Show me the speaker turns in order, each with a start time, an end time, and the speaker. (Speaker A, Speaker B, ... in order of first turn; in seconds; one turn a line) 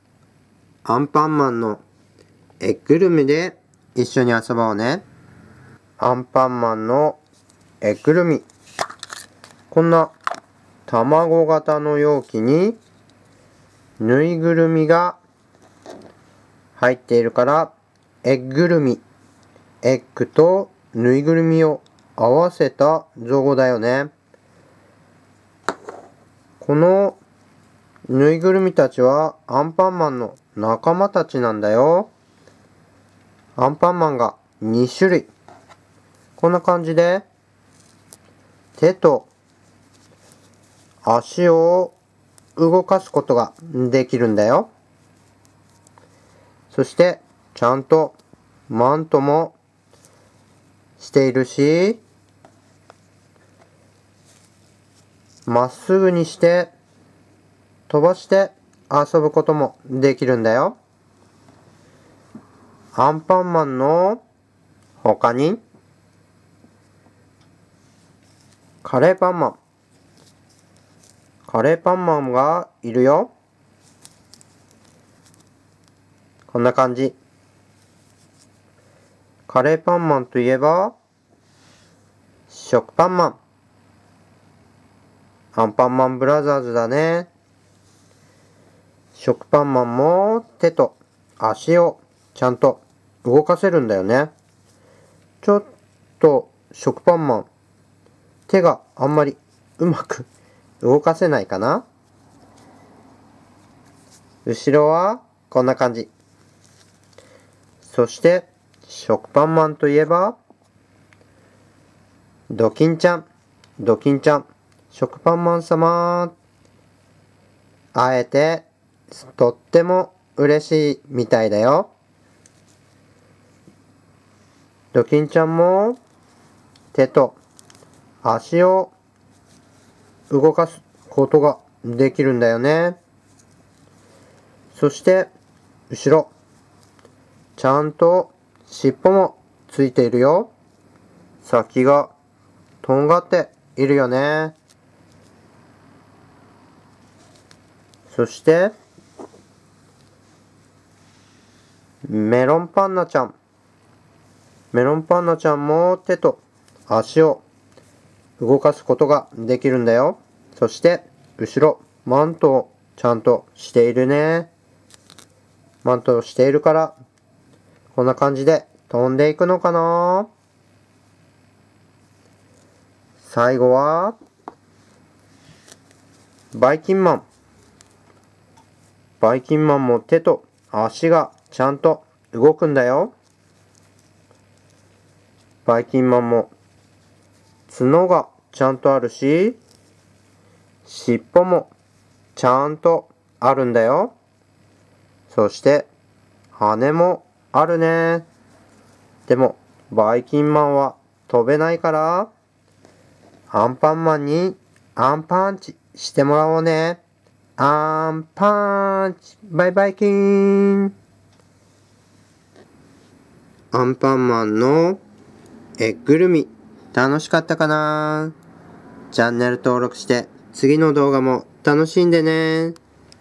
Speaker A: 0.8-1.8
Speaker A: 2.6-5.0
Speaker A: 6.0-7.2
Speaker A: 7.8-8.4
Speaker A: 9.7-10.1
Speaker A: 10.9-12.8
Speaker A: 14.0-15.2
Speaker A: 16.8-19.0
Speaker A: 19.8-24.1
Speaker A: 26.6-27.2
Speaker A: 28.1-32.1
Speaker A: 33.6-35.3
Speaker A: 36.4-37.2
Speaker A: 38.8-39.3
Speaker A: 41.0-41.9
Speaker A: 42.5-44.7
Speaker A: 46.7-48.1
Speaker A: 48.7-49.6
Speaker A: 51.0-52.0
Speaker A: 55.5-56.7
Speaker A: 57.9-60.8
Speaker A: 62.9-64.2
Speaker A: 65.0-65.6
Speaker A: 68.8-69.6
Speaker A: 71.5-73.3
Speaker A: 76.5-77.2
Speaker A: 79.5-81.0
Speaker A: 82.5-83.4
Speaker A: 85.5-87.3
Speaker A: 89.1-94.3
Speaker A: 95.4-97.5
Speaker A: 98.5-100.3
Speaker A: 100.8-101.8
Speaker A: 104.5-106.1
Speaker A: 107.8-110.4
Speaker A: 112.5-113.3
Speaker A: 113.8-116.3
Speaker A: 117.9-121.9
Speaker A: 124.9-126.0
Speaker A: 126.9-127.4
Speaker A: 128.2-128.9
Speaker A: 130.3-133.0
Speaker A: 134.7-135.3
Speaker A: 135.9-136.3
Speaker A: 137.6-140.5
Speaker A: 141.4-142.1
Speaker A: 142.8-144.6
Speaker A: 148.1-148.7
Speaker A: 152.0-153.3
Speaker A: 154.7-157.4
Speaker A: 158.4-164.5
Speaker A: 165.8-166.9
Speaker A: 167.9-170.3
Speaker A: 173.2-174.2
Speaker A: 176.5-177.2
Speaker A: 179.2-183.1
Speaker A: 185.7-186.5
Speaker A: 187.7-189.6
Speaker A: 190.8-191.7
Speaker A: 192.3-194.1
Speaker A: 195.3-195.9
Speaker A: 196.6-198.3
Speaker A: 199.3-202.3
Speaker A: 203.5-207.0
Speaker A: 207.6-210.9
Speaker A: 213.7-215.0
Speaker A: 215.8-218.3
Speaker A: 219.1-222.8